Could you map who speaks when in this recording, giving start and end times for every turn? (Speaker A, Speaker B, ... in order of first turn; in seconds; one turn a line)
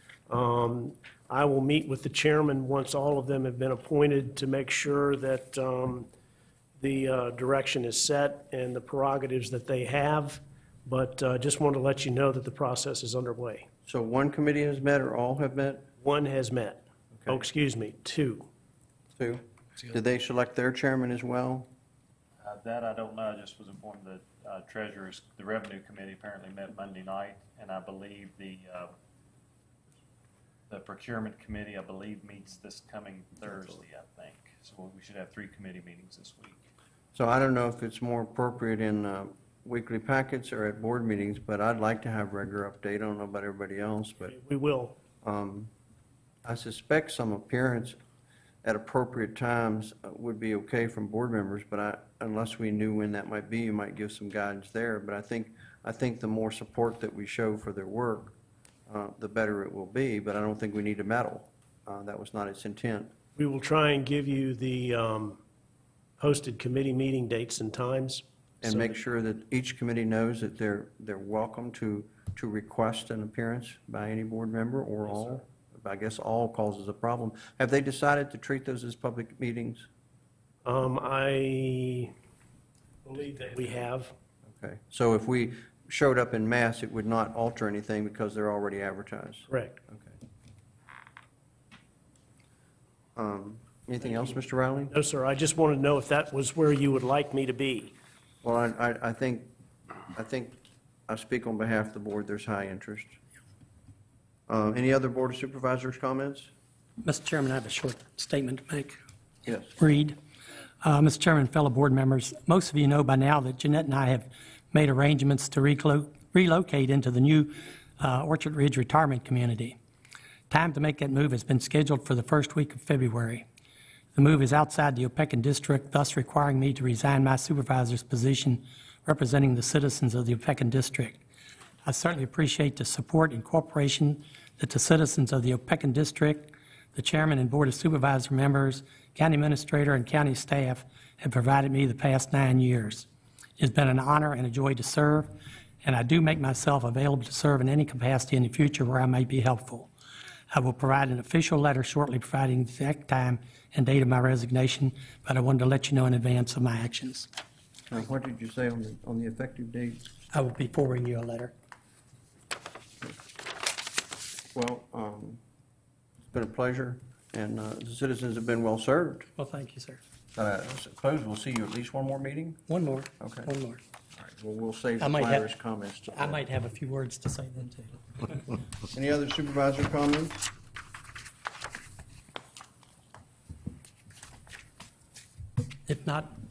Speaker A: 0.3-6.1
Speaker A: 6.8-13.7
Speaker B: 13.8-15.9
Speaker A: 16.0-18.5
Speaker B: 19.2-21.7
Speaker C: 22.4-28.9
Speaker C: 30.7-36.6
Speaker B: 37.1-44.3
Speaker A: 44.3-45.0
Speaker B: 45.2-45.7
Speaker B: 46.4-48.0
Speaker B: 48.6-58.3
Speaker B: 58.9-63.1
Speaker A: 63.4-65.4
Speaker A: 66.2-68.9
Speaker B: 68.6-79.9
Speaker A: 80.6-82.1
Speaker A: 83.0-84.1
Speaker B: 84.5-90.1
Speaker A: 89.5-89.8
Speaker B: 93.2-94.9
Speaker A: 94.0-94.3
Speaker A: 94.9-97.9
Speaker B: 98.4-99.5
Speaker B: 100.1-103.2
Speaker B: 104.5-106.5
Speaker D: 107.0-109.0
Speaker B: 109.4-109.7
Speaker D: 109.7-110.2
Speaker D: 110.8-119.8
Speaker D: 120.5-123.4
Speaker D: 124.1-131.2
Speaker D: 131.8-143.1
Speaker D: 143.6-145.3
Speaker D: 145.8-149.9
Speaker D: 150.5-157.3
Speaker B: 157.9-160.1
Speaker D: 160.3-161.5
Speaker B: 164.5-165.4
Speaker B: 166.3-169.3
Speaker D: 169.4-170.0
Speaker B: 170.3-172.6
Speaker D: 172.7-173.8
Speaker B: 173.2-173.5
Speaker B: 174.2-176.4
Speaker D: 175.0-175.4
Speaker D: 176.1-178.4
Speaker B: 178.9-180.4
Speaker D: 185.9-186.3